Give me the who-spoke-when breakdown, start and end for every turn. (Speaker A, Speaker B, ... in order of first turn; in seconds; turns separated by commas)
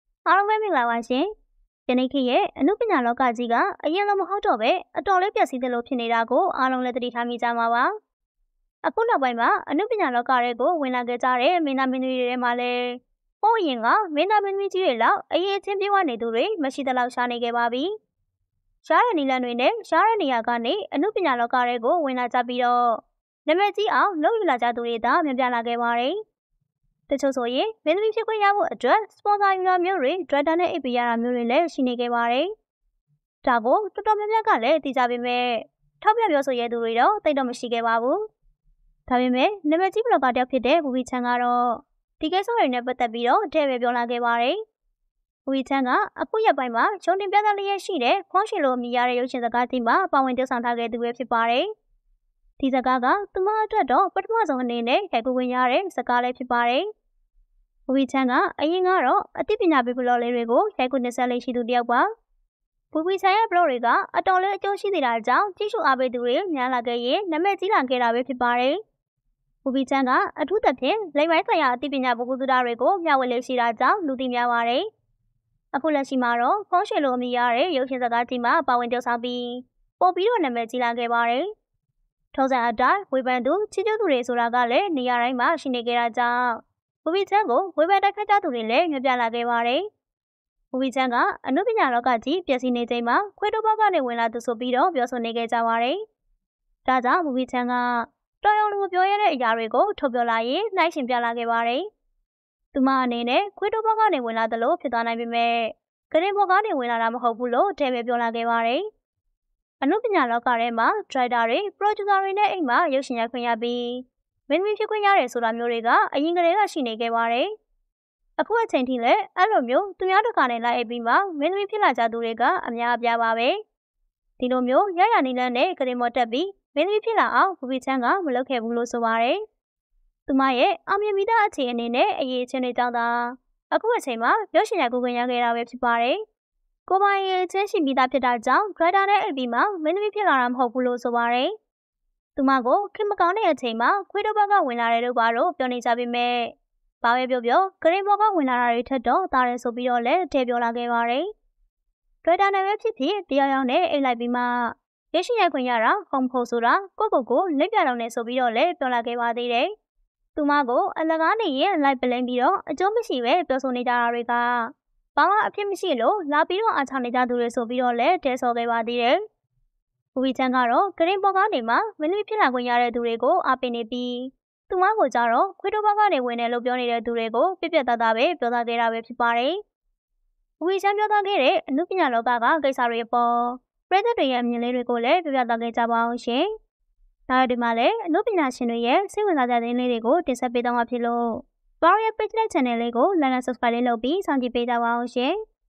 Speaker A: 0.3-1.3, Speaker A: 1.9-7.9, Speaker A: 8.8-17.9, Speaker A: 18.8-26.2, Speaker A: 27.1-32.5, Speaker A: 33.4-38.2, Speaker A: 39.1-44.6, Speaker A: 45.5-51.7, Speaker A: 52.6-56.9, Speaker A: 57.9-62.1, Speaker A: 62.9-68.8, Speaker A: 69.6-74.9, Speaker A: 75.7-81.5, Speaker A: 82.3-89.9, Speaker A: 90.7-96.0, Speaker A: 96.9-101.9, Speaker A: 102.7-108.9, Speaker A: 109.8-117.5, Speaker A: 118.4-123.6, Speaker A: 124.4-129.4, Speaker A: 130.3-136.2, Speaker A: 136.9-141.5, Speaker A: 142.4-151.3, Speaker A: 152.2-159.7, Speaker A: 160.4-169.2, Speaker A: 170.2-179.6, Speaker A: 180.6-186.5, Speaker A: 187.3-195.3